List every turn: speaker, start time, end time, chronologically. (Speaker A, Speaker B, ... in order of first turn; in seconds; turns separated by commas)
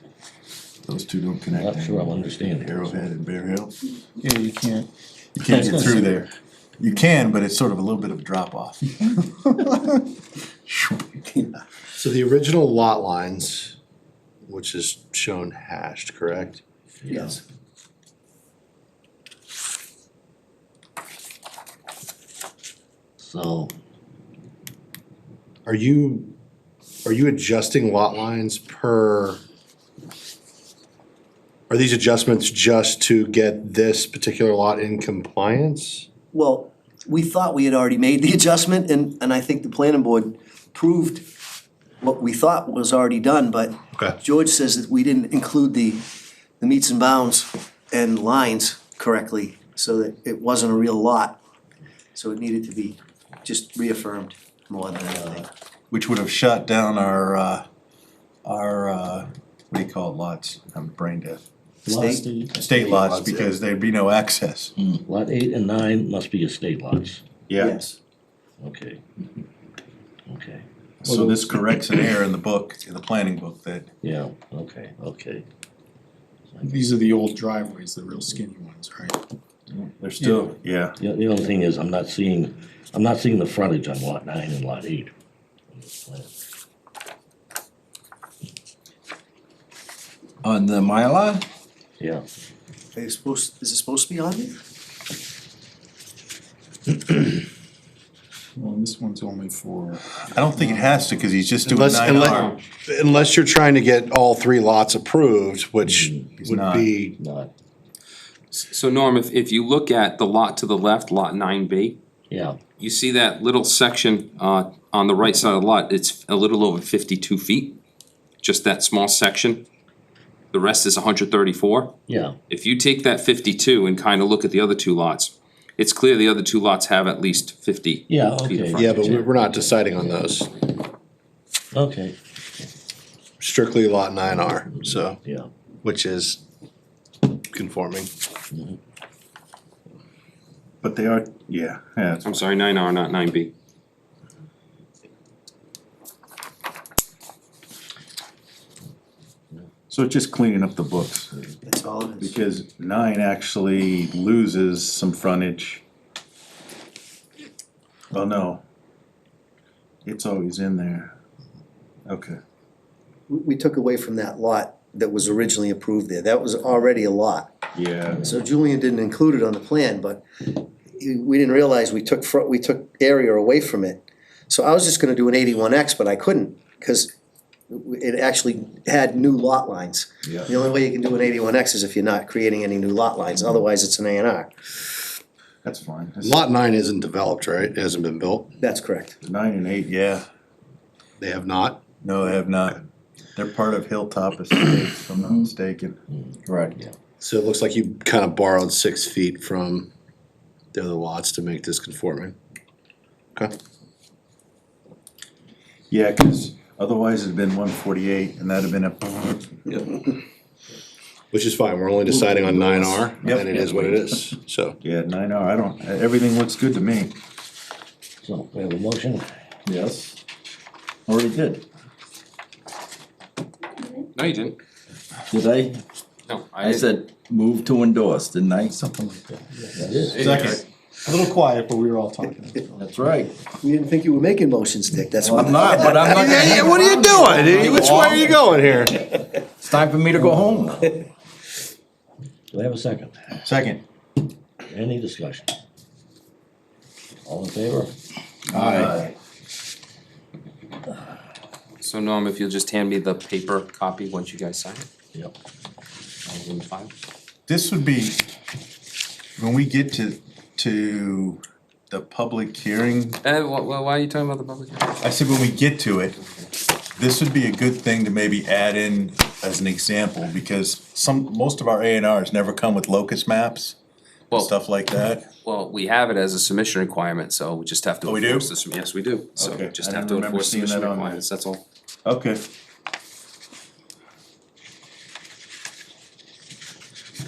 Speaker A: 0.8-3.7, Speaker B: 1.6-3.0, Speaker C: 4.2-4.9, Speaker A: 5.3-10.0, Speaker B: 5.5-6.2, Speaker A: 10.7-11.6, Speaker D: 12.0-13.8, Speaker D: 14.5-16.6, Speaker B: 17.0-17.4, Speaker E: 17.1-17.4, Speaker B: 23.2-23.7, Speaker D: 25.7-26.3, Speaker D: 27.1-29.4, Speaker D: 31.7-36.1, Speaker E: 36.3-41.3, Speaker E: 42.0-46.0, Speaker E: 46.6-51.4, Speaker E: 52.1-55.5, Speaker B: 55.1-55.4, Speaker A: 55.9-57.7, Speaker A: 58.5-61.4, Speaker B: 61.9-63.1, Speaker E: 61.9-62.3, Speaker A: 62.5-64.7, Speaker B: 65.0-67.2, Speaker A: 67.5-67.8, Speaker E: 67.6-68.0, Speaker B: 68.6-69.0, Speaker B: 70.3-71.3, Speaker A: 71.0-73.9, Speaker B: 74.0-75.5, Speaker B: 76.5-76.9, Speaker C: 76.7-79.2, Speaker A: 79.7-81.0, Speaker B: 81.0-85.1, Speaker B: 85.8-86.3, Speaker F: 90.4-91.5, Speaker B: 92.0-92.2, Speaker E: 93.0-94.6, Speaker C: 98.6-100.1, Speaker A: 100.2-102.5, Speaker D: 101.6-107.2, Speaker B: 105.8-106.3, Speaker A: 106.4-106.9, Speaker B: 107.2-107.5, Speaker G: 108.5-112.0, Speaker B: 112.3-112.6, Speaker G: 112.8-117.8, Speaker G: 118.4-119.7, Speaker G: 120.5-121.9, Speaker B: 122.1-122.4, Speaker G: 122.5-128.9, Speaker B: 128.1-130.2, Speaker D: 128.8-130.5, Speaker B: 131.7-132.2, Speaker D: 133.4-135.2, Speaker B: 134.8-135.5, Speaker D: 135.8-136.4, Speaker D: 137.5-138.1, Speaker B: 138.5-138.8, Speaker A: 140.8-142.4, Speaker G: 142.2-143.5, Speaker A: 149.9-151.6, Speaker E: 151.6-152.4, Speaker A: 152.2-155.8, Speaker A: 158.1-158.6, Speaker A: 160.1-161.2, Speaker A: 162.1-162.4, Speaker E: 163.3-167.5, Speaker A: 167.7-168.3, Speaker E: 168.2-177.1, Speaker E: 177.7-184.5, Speaker A: 185.6-186.4, Speaker D: 186.2-188.5, Speaker E: 188.6-189.2, Speaker A: 189.2-190.3, Speaker D: 191.2-191.8, Speaker A: 192.0-192.8, Speaker A: 193.4-196.0, Speaker F: 195.2-195.5, Speaker F: 196.5-196.8, Speaker D: 197.2-199.9, Speaker D: 200.7-202.3, Speaker A: 205.9-209.8, Speaker D: 211.3-214.8, Speaker A: 213.2-214.0, Speaker A: 214.8-217.2, Speaker B: 218.2-219.3, Speaker F: 219.7-220.2, Speaker F: 221.1-221.6, Speaker G: 224.2-224.6, Speaker F: 225.3-225.8, Speaker G: 226.3-226.9, Speaker F: 226.6-228.8, Speaker C: 228.8-229.7, Speaker F: 229.7-230.5, Speaker B: 229.8-230.2, Speaker G: 230.1-230.6, Speaker A: 230.1-230.6, Speaker C: 231.1-232.8, Speaker F: 232.8-233.3, Speaker E: 233.6-236.4, Speaker F: 235.2-238.3, Speaker D: 236.1-239.0, Speaker F: 239.6-240.9, Speaker B: 242.5-243.4, Speaker A: 243.4-243.8, Speaker B: 244.7-245.5, Speaker B: 247.2-247.9, Speaker A: 248.5-249.1, Speaker F: 248.6-248.9, Speaker G: 251.8-254.9, Speaker G: 256.3-256.9, Speaker A: 257.5-258.2, Speaker A: 259.4-263.2, Speaker G: 263.2-265.0, Speaker A: 265.0-266.2, Speaker A: 267.0-273.8, Speaker A: 274.3-275.3, Speaker G: 275.4-281.6, Speaker A: 278.1-278.5, Speaker A: 279.4-281.2, Speaker A: 282.1-282.4